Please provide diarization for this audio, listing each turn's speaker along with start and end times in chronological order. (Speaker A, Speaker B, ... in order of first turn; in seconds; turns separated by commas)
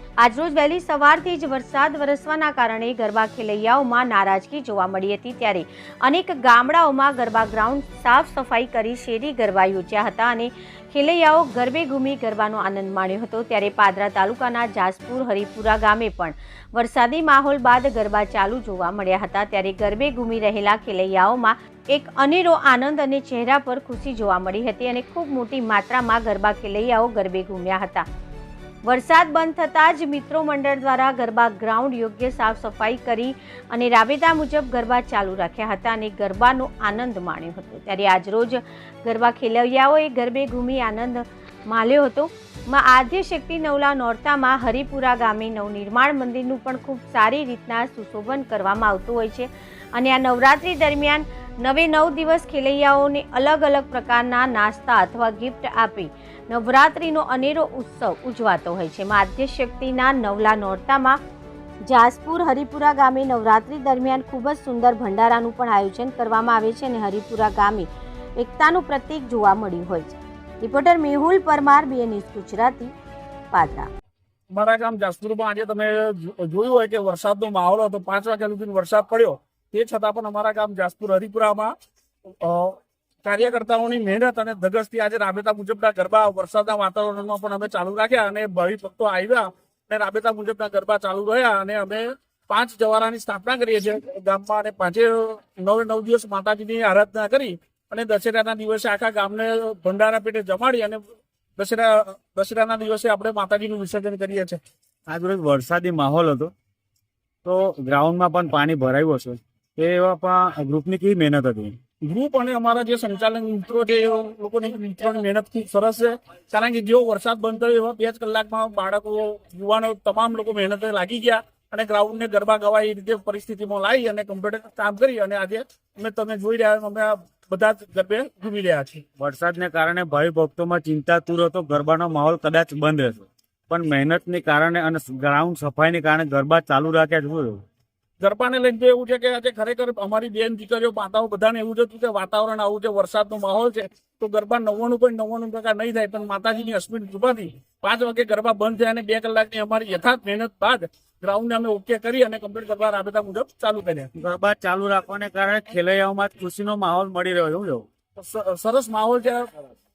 Speaker A: 0.2-28.1, Speaker A: 28.8-61.2, Speaker A: 61.9-72.9, Speaker A: 73.5-73.9, Speaker B: 74.5-81.7, Speaker B: 82.4-101.0, Speaker B: 101.6-104.6, Speaker C: 105.1-106.5, Speaker C: 107.4-111.7, Speaker B: 112.0-129.0, Speaker C: 129.2-137.6, Speaker B: 138.2-154.1, Speaker C: 154.1-157.9, Speaker B: 158.2-159.5